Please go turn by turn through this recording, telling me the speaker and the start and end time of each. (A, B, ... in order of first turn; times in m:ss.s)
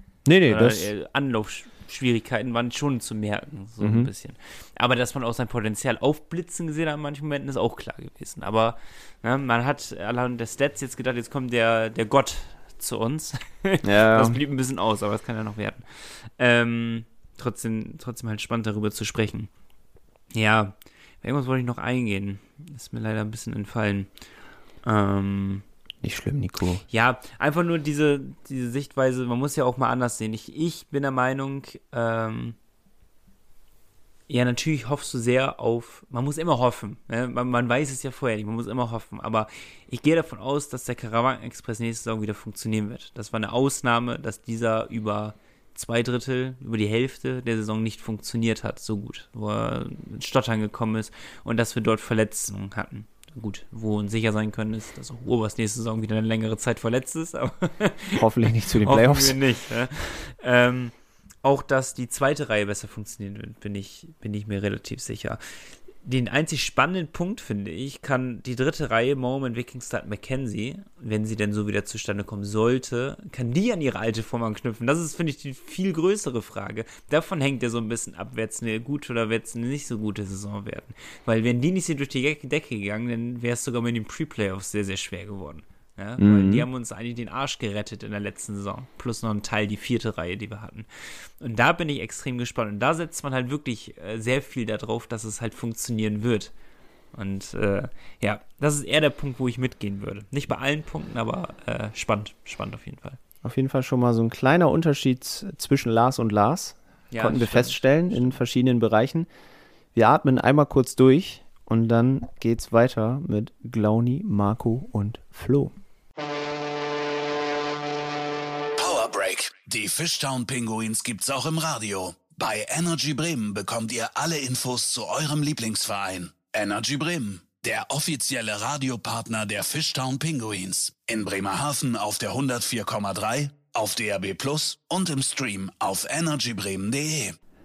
0:00.2-0:00.9 A
0:00.5-0:19.5 B
0:03.8-0:04.1 A
0:13.8-0:14.4 A
0:20.3-0:24.1 B
0:24.8-0:25.6 B
0:26.0-0:26.8 A
0:26.9-0:32.6 B
0:34.3-0:58.2 B
0:58.2-0:59.4 A
0:58.8-1:36.5 B
1:26.2-1:26.6 A
1:37.1-1:43.2 B
1:43.4-1:49.3 A
1:47.1-1:48.4 B
1:49.9-1:55.7 A
1:58.8-2:17.4 C